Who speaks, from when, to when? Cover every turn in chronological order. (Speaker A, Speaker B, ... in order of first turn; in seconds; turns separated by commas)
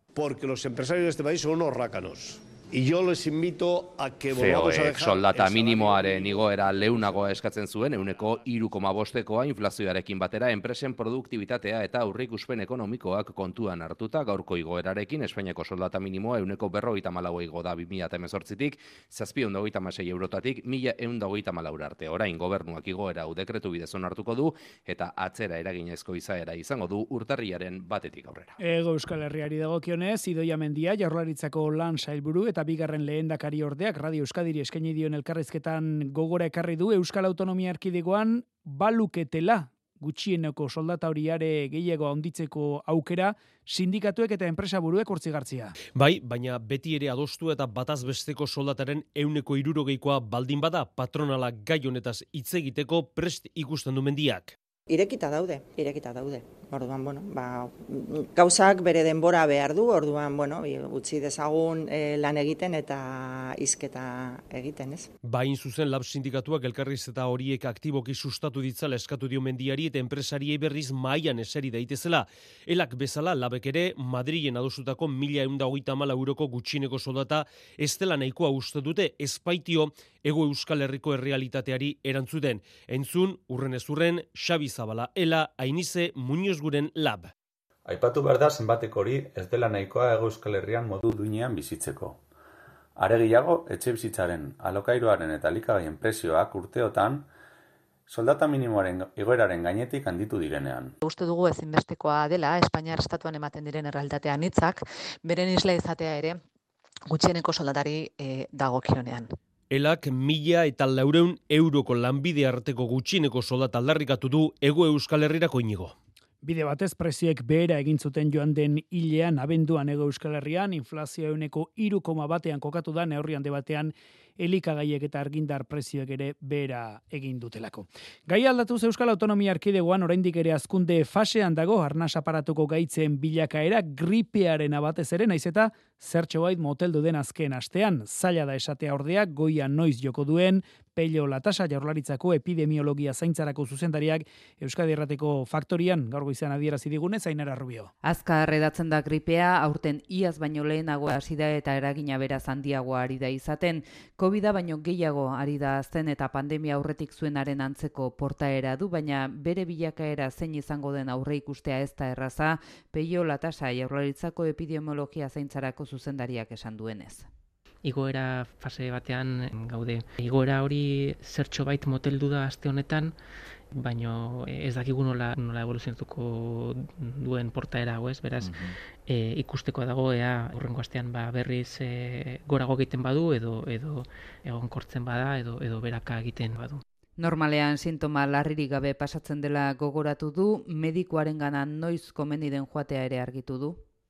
Speaker A: 0.1-6.4, Speaker B: 4.3-28.6, Speaker C: 28.6-45.8, Speaker D: 46.0-54.5, Speaker E: 54.9-65.1, Speaker D: 65.2-87.3, Speaker F: 87.9-92.2, Speaker F: 93.0-97.2, Speaker F: 98.1-100.9, Speaker G: 101.0-106.4, Speaker G: 107.1-109.3, Speaker D: 109.7-116.0, Speaker C: 116.4-147.9, Speaker H: 148.0-167.3, Speaker I: 167.8-173.1, Speaker I: 173.7-186.8, Speaker H: 187.2-193.8